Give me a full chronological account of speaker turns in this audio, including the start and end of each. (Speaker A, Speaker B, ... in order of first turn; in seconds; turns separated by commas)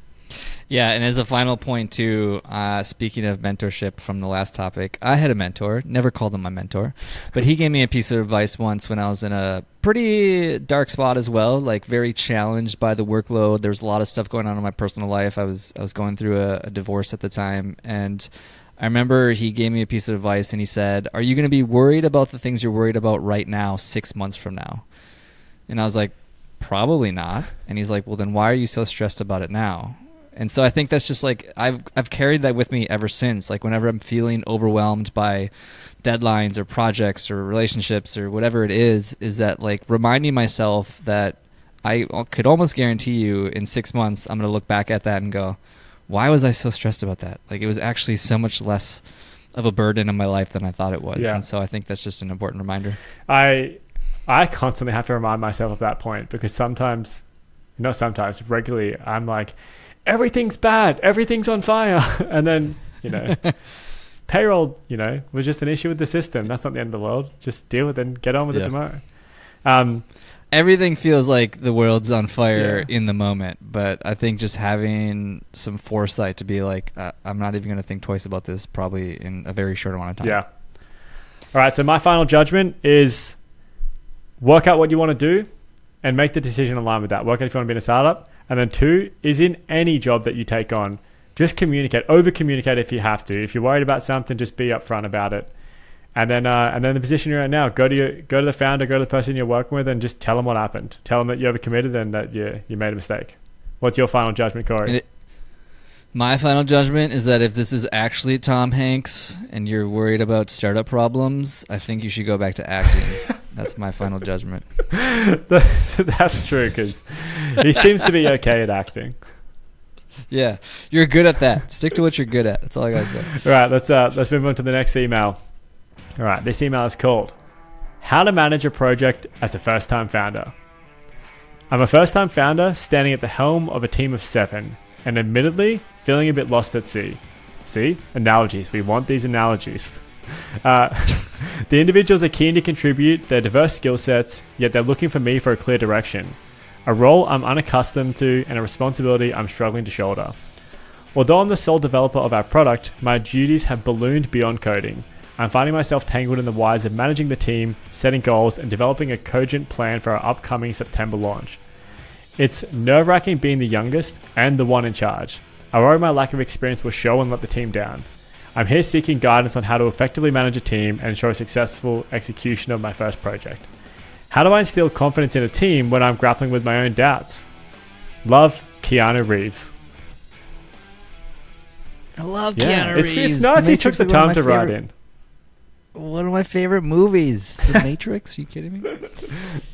Speaker A: 0.7-18.3, Speaker A: 18.8-24.9, Speaker A: 25.7-35.5, Speaker A: 36.0-45.6, Speaker A: 46.1-49.0, Speaker A: 49.5-53.0, Speaker B: 51.2-51.4, Speaker B: 53.3-57.2, Speaker B: 57.8-63.7, Speaker B: 64.3-69.1, Speaker B: 69.6-70.0, Speaker A: 70.5-80.4, Speaker B: 72.5-72.9, Speaker B: 81.5-83.4, Speaker B: 84.4-85.5, Speaker B: 86.0-95.5, Speaker B: 96.2-105.0, Speaker A: 106.1-114.7, Speaker B: 114.9-119.2, Speaker A: 120.3-123.3, Speaker B: 123.3-125.4, Speaker B: 126.2-127.3, Speaker B: 128.0-130.5, Speaker B: 131.7-150.4, Speaker B: 151.2-161.6, Speaker B: 162.4-173.7, Speaker B: 174.3-177.5, Speaker B: 178.2-179.7, Speaker A: 182.2-184.8, Speaker B: 182.6-184.9, Speaker A: 185.9-189.1